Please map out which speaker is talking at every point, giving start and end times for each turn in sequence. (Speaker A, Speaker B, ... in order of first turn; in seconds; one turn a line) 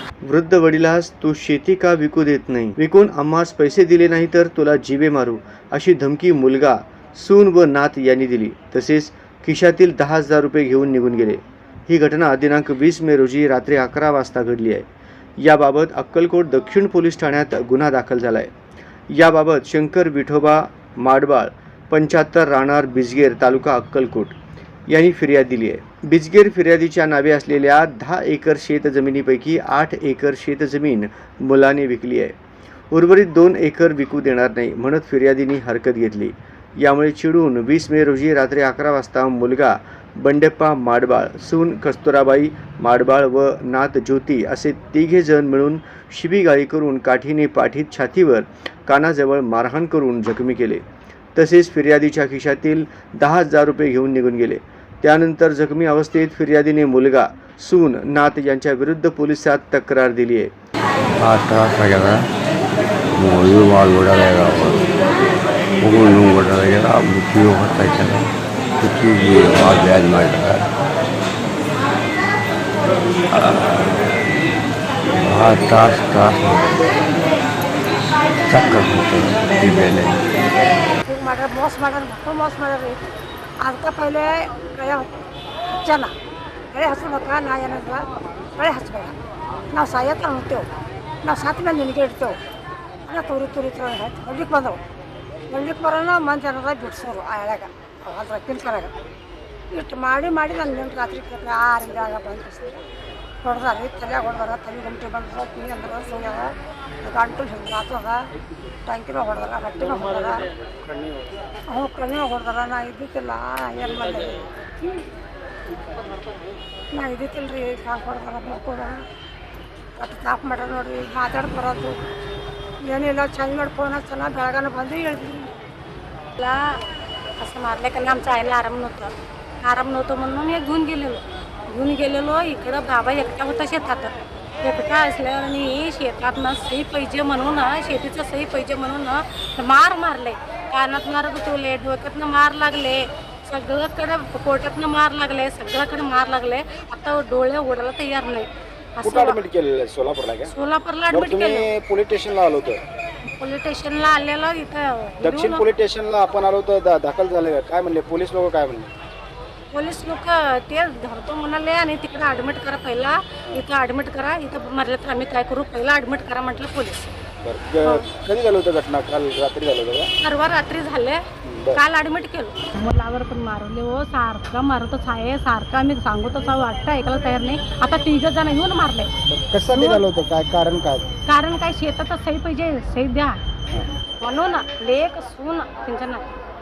Speaker A: 0.2-14.9
Speaker A: 15.4-18.5
Speaker A: 19.1-24.4
Speaker A: 24.9-32.4
Speaker A: 32.9-50.8
Speaker A: 51.3-60.5
Speaker B: 61.2-62.3
Speaker B: 63.1-64.8
Speaker B: 65.8-68.2
Speaker B: 68.8-70.7
Speaker B: 73.3-73.8
Speaker B: 75.2-76.9
Speaker B: 78.5-80.2
Speaker C: 81.0-83.0
Speaker C: 83.6-85.1
Speaker C: 85.7-86.1
Speaker C: 86.7-89.1
Speaker C: 89.7-90.7
Speaker C: 91.2-92.4
Speaker C: 93.0-94.8
Speaker C: 95.5-98.9
Speaker C: 99.7-102.8
Speaker C: 103.4-108.2
Speaker C: 108.8-110.5
Speaker C: 111.7-115.0
Speaker C: 116.9-119.0
Speaker C: 120.0-122.0
Speaker C: 122.8-125.5
Speaker D: 126.3-126.8
Speaker D: 127.4-149.4
Speaker E: 149.0-150.5
Speaker D: 150.5-151.7
Speaker E: 151.1-152.8
Speaker D: 153.2-155.7
Speaker E: 155.2-158.9
Speaker D: 159.7-167.1
Speaker E: 167.4-170.1
Speaker D: 170.2-171.2
Speaker E: 171.4-171.8
Speaker D: 171.7-179.1
Speaker E: 179.3-181.1
Speaker D: 179.7-180.0
Speaker D: 181.3-183.4
Speaker D: 184.2-186.3